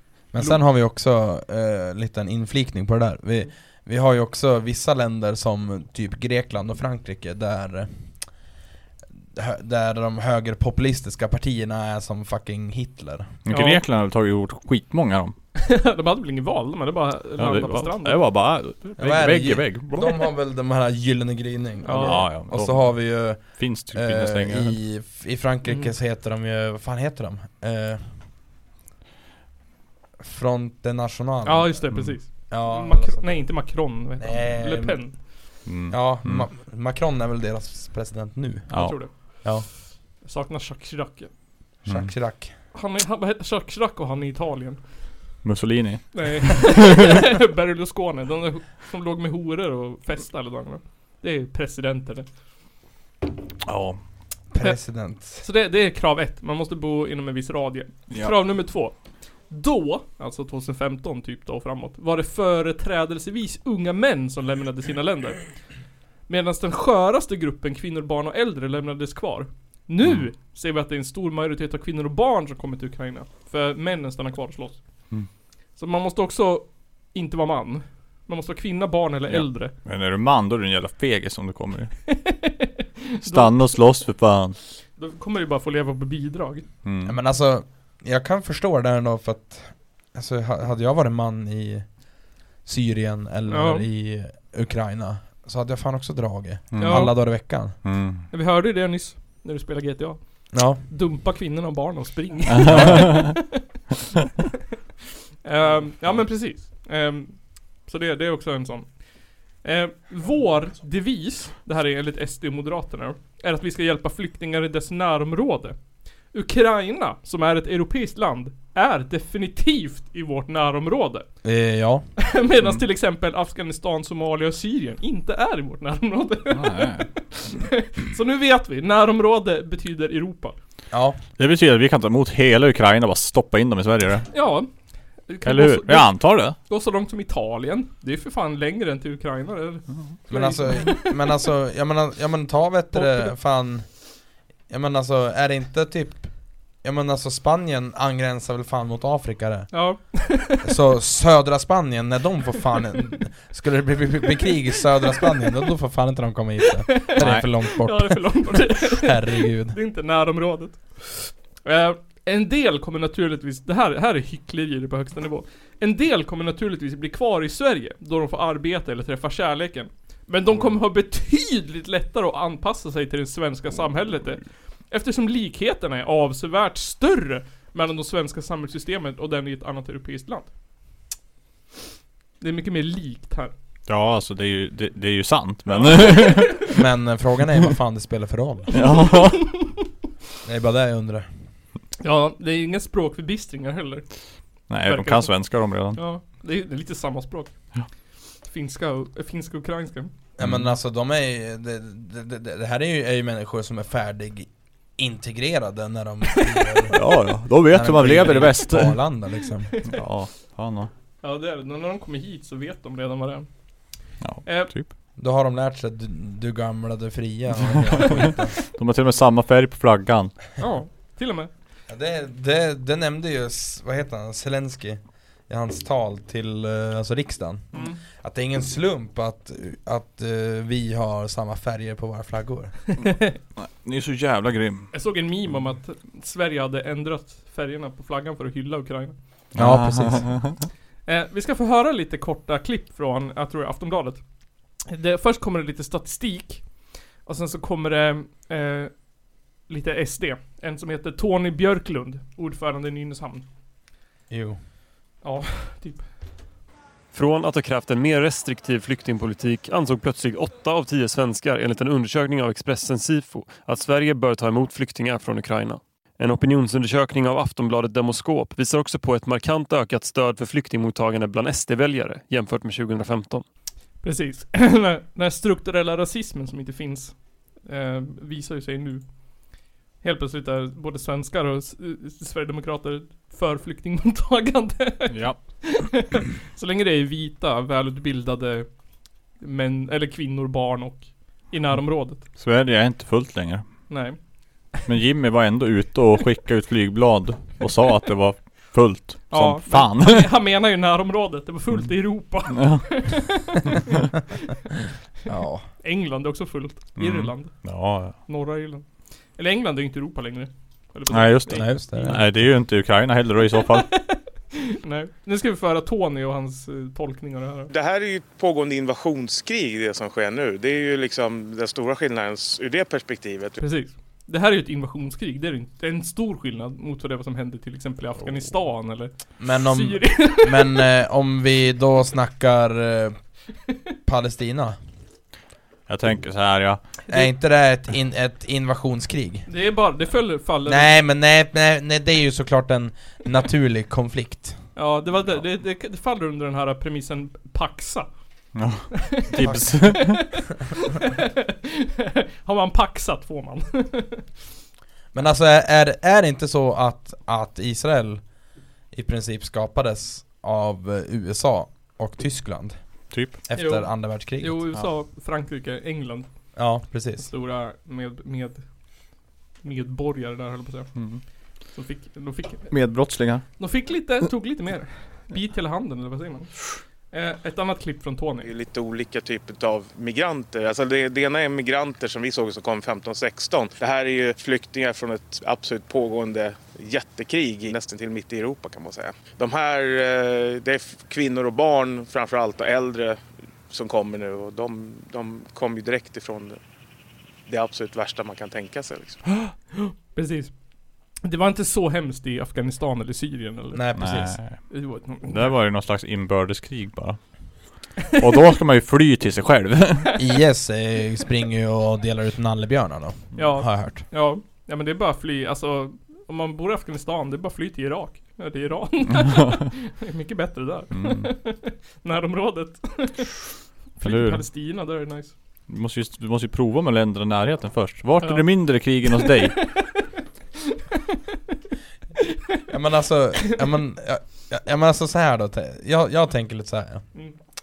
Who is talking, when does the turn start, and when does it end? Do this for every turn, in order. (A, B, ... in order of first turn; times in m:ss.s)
0:00.3-0:08.0 A
0:09.3-0:13.4 A
0:13.4-0:15.4 B
0:13.5-0:13.8 C
0:15.6-0:18.2 C
0:17.4-0:20.2 B
0:19.0-0:28.0 A
0:21.8-0:22.3 C
0:22.0-0:24.8 B
0:30.2-0:31.9 A
0:31.5-0:35.1 C
0:32.5-0:33.4 A
0:34.2-0:35.0 A
0:35.7-0:36.5 B
0:35.9-0:39.7 A
0:38.7-0:39.0 B
0:38.7-0:39.1 C
0:40.2-0:41.3 C
0:41.9-0:42.5 A
0:42.7-0:44.8 C
0:45.4-0:47.1 B
0:46.1-0:52.3 C
0:53.6-0:54.0 B
0:54.5-0:55.4 A
0:55.4-0:59.0 C
0:59.5-1:05.5 C
1:06.3-1:14.8 C
1:15.8-1:19.7 C
1:19.3-1:21.9 B
1:22.1-1:23.7 C
1:23.2-1:24.6 B
1:25.0-1:26.6 C
1:26.8-1:27.2 B
1:27.0-1:31.9 A
1:32.6-1:37.8 A
1:33.5-1:33.9 C
1:36.7-1:38.3 B
1:36.8-1:37.1 C
1:38.3-1:43.6 C
1:40.5-1:40.8 A
1:42.6-1:43.4 B
1:42.7-1:43.3 A
1:45.4-1:48.9 C
1:49.6-1:55.8 C
1:56.3-2:01.3 C
2:01.4-2:02.1 A
2:02.2-2:10.6 C
2:06.5-2:07.1 B
2:10.9-2:11.2 A
2:11.4-2:14.3 B
2:14.3-2:14.7 C
2:15.3-2:21.1 C
2:15.4-2:16.6 B
2:20.3-2:24.0 A
2:23.0-2:23.3 C
2:24.7-2:26.3 A
2:26.8-2:29.7 A
2:29.7-2:30.7 C
2:30.6-2:39.8 A
2:37.0-3:00.5 C
2:37.2-2:37.4 B
3:02.4-3:03.5 C
3:03.9-3:06.7 B
3:05.7-3:06.6 C
3:06.7-3:08.7 A
3:08.7-3:09.5 B
3:08.8-3:09.3 C
3:10.4-3:11.3 A
3:12.0-3:14.1 C
3:14.7-3:16.0 B
3:14.9-3:15.3 C
3:15.9-3:17.5 C
3:18.5-3:20.1 C
3:20.4-3:27.0 A
3:20.4-3:20.7 B
3:26.9-3:29.0 B
3:27.6-3:29.8 A
3:29.9-3:30.9 B
3:31.2-3:33.5 C
3:34.2-3:34.9 B
3:34.4-3:34.7 C
3:35.2-3:38.6 A
3:38.0-3:40.4 B
3:40.6-3:41.5 C
3:41.9-3:52.8 A
3:47.7-3:48.0 C
3:53.1-3:53.3 C
3:53.6-3:54.9 B
3:54.9-3:59.2 C
3:59.5-4:00.7 B
3:59.6-4:00.3 A
4:01.1-4:04.2 C
4:04.9-4:06.7 C
4:07.2-4:08.9 C
4:09.7-4:13.5 C
4:14.3-4:14.6 A
4:15.2-4:16.1 C
4:17.1-4:33.4 D
4:34.0-4:39.1 C
4:40.0-4:48.7 C
4:45.1-4:45.4 B
4:49.4-4:52.2 C
4:52.4-4:53.6 B
4:53.9-4:54.2 C
4:54.9-5:00.3 B
4:59.3-5:04.0 C
5:02.5-5:03.3 B
5:05.3-5:05.7 A
5:05.8-5:08.8 C
5:07.0-5:08.2 B
5:09.4-5:12.2 C
5:11.1-5:13.9 B
5:11.5-5:12.3 A
5:13.7-5:17.7 C
5:17.7-5:23.6 E
5:23.6-5:30.8 C
5:29.4-5:33.2 A
5:34.1-5:34.8 A
5:35.9-5:36.8 B
5:37.1-5:39.5 A
5:39.5-5:41.0 C
5:40.7-5:44.6 A
5:44.8-5:48.1 C
5:48.6-5:50.2 B
5:49.0-5:54.3 C
5:49.4-5:50.1 A
5:55.1-5:58.3 A
5:58.9-6:02.8 A
6:03.1-6:03.4 B
6:03.4-6:04.6 A
6:03.6-6:06.3 C
6:06.6-6:07.3 A
6:07.2-6:08.6 C
6:09.6-6:11.0 C
6:11.0-6:11.2 B
6:11.7-6:12.7 C
6:12.7-6:13.4 B
6:13.6-6:18.5 C
6:18.4-6:36.6 E
6:37.5-6:39.2 E
6:39.7-6:40.5 C
6:41.2-6:43.8 C
6:43.7-6:44.4 A
6:44.0-6:44.6 B
6:44.7-6:45.6 C
6:45.2-6:47.2 B
6:48.1-6:50.2 B
6:50.2-6:54.0 A
6:53.4-7:05.3 C
7:00.9-7:01.3 B
7:04.0-7:04.4 B
7:05.7-7:09.6 B
7:08.2-7:09.6 C
7:12.7-7:17.1 A